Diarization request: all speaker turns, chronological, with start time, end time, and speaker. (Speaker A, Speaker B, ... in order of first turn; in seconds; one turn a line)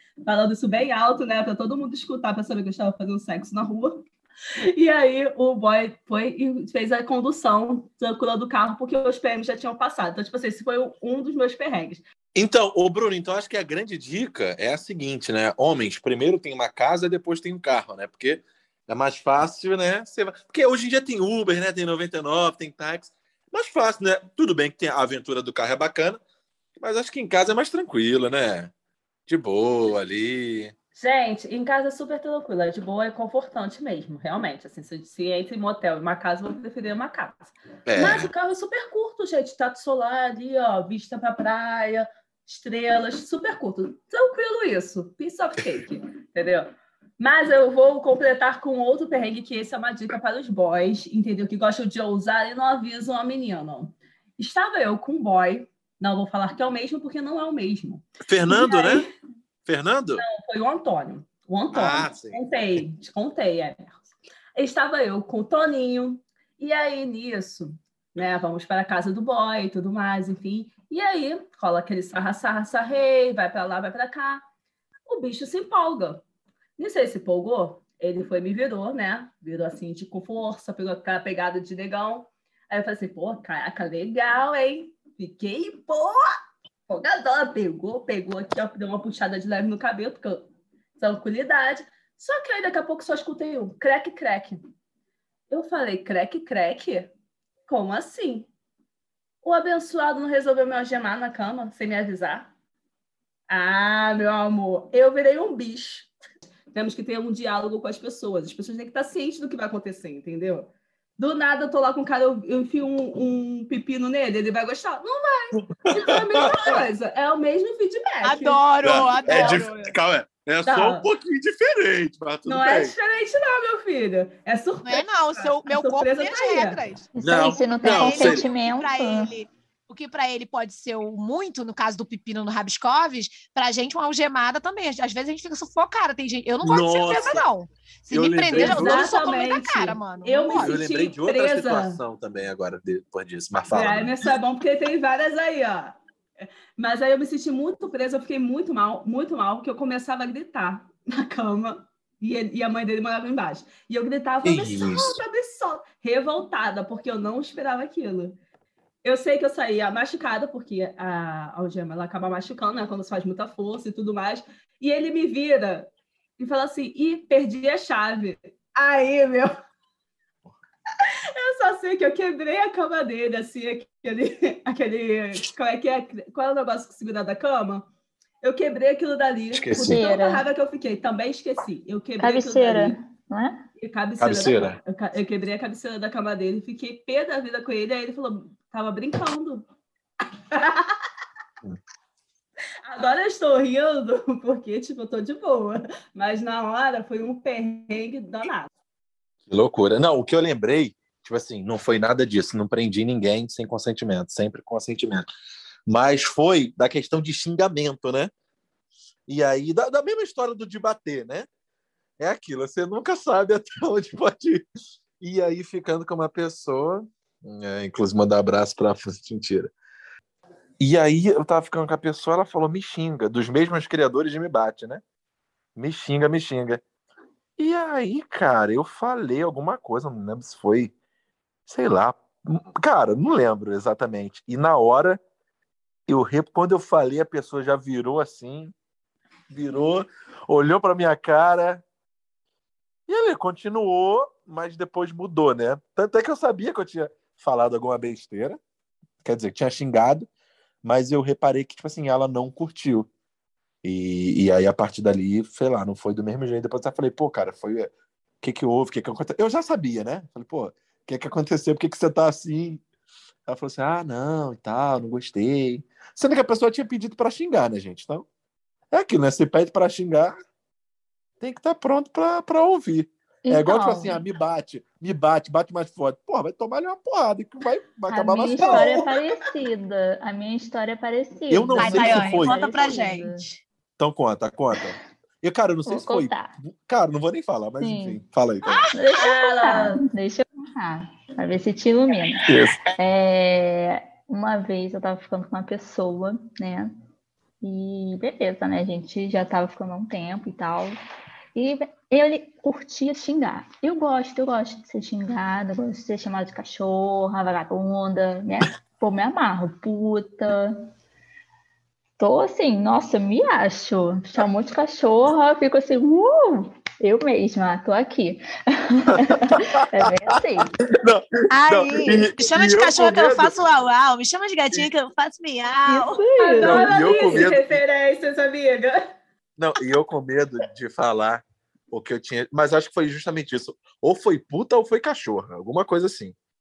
Speaker A: 0.2-4.1
Speaker A: 4.7-12.0
Speaker B: 12.3-26.2
Speaker B: 26.8-28.7
Speaker B: 29.3-30.7
Speaker A: 31.0-59.1
Speaker B: 37.9-38.3
Speaker B: 58.2-59.1
Speaker B: 59.7-60.2
Speaker A: 60.2-74.4
Speaker B: 61.7-62.4
Speaker A: 75.1-76.2
Speaker A: 76.8-86.3
Speaker A: 86.9-94.6
Speaker A: 95.5-97.1
Speaker A: 97.7-98.5
Speaker A: 99.4-102.5
Speaker A: 103.5-106.1
Speaker A: 106.7-119.8
Speaker B: 115.6-116.5
Speaker C: 118.2-119.9
Speaker B: 118.8-122.9
Speaker A: 120.7-121.1
Speaker A: 122.5-126.8
Speaker C: 124.8-127.1
Speaker D: 127.2-129.3
Speaker B: 127.2-128.5
Speaker C: 127.8-140.8
Speaker B: 136.6-137.4
Speaker B: 138.1-139.2
Speaker A: 138.5-142.0
Speaker B: 140.6-144.3
Speaker A: 143.7-146.0
Speaker A: 146.8-158.4
Speaker B: 154.4-155.2
Speaker A: 159.0-169.5
Speaker A: 171.0-177.9
Speaker A: 178.4-183.0
Speaker B: 179.5-180.1
Speaker D: 179.8-180.5
Speaker D: 182.2-183.6
Speaker A: 183.8-189.7
Speaker B: 184.2-184.8
Speaker A: 190.5-191.0
Speaker A: 192.9-198.7
Speaker B: 199.5-205.3
Speaker B: 205.9-208.3
Speaker B: 209.3-211.5
Speaker B: 212.2-214.7
Speaker B: 215.2-219.7
Speaker B: 220.8-225.0
Speaker B: 225.8-226.8
Speaker B: 227.6-230.9
Speaker B: 231.7-235.2
Speaker B: 236.1-238.7
Speaker B: 239.5-241.8
Speaker B: 243.1-248.6
Speaker B: 249.2-250.3
Speaker B: 250.8-253.1
Speaker B: 253.8-262.8
Speaker B: 263.5-268.3
Speaker B: 268.9-270.3
Speaker B: 271.4-279.1
Speaker D: 273.4-274.2
Speaker D: 278.1-283.4
Speaker B: 281.5-282.7
Speaker C: 281.8-283.6
Speaker B: 284.0-288.9
Speaker D: 285.9-286.6
Speaker D: 287.8-288.2
Speaker D: 288.9-292.4
Speaker A: 289.2-290.0
Speaker B: 292.5-292.8
Speaker D: 293.0-296.9
Speaker D: 297.6-300.9
Speaker D: 301.6-310.9
Speaker D: 312.2-320.7
Speaker B: 319.1-320.3
Speaker B: 320.9-323.6
Speaker C: 321.5-326.2
Speaker D: 321.9-322.2
Speaker D: 325.9-327.5
Speaker A: 326.4-329.1
Speaker B: 326.6-327.8
Speaker B: 329.6-336.4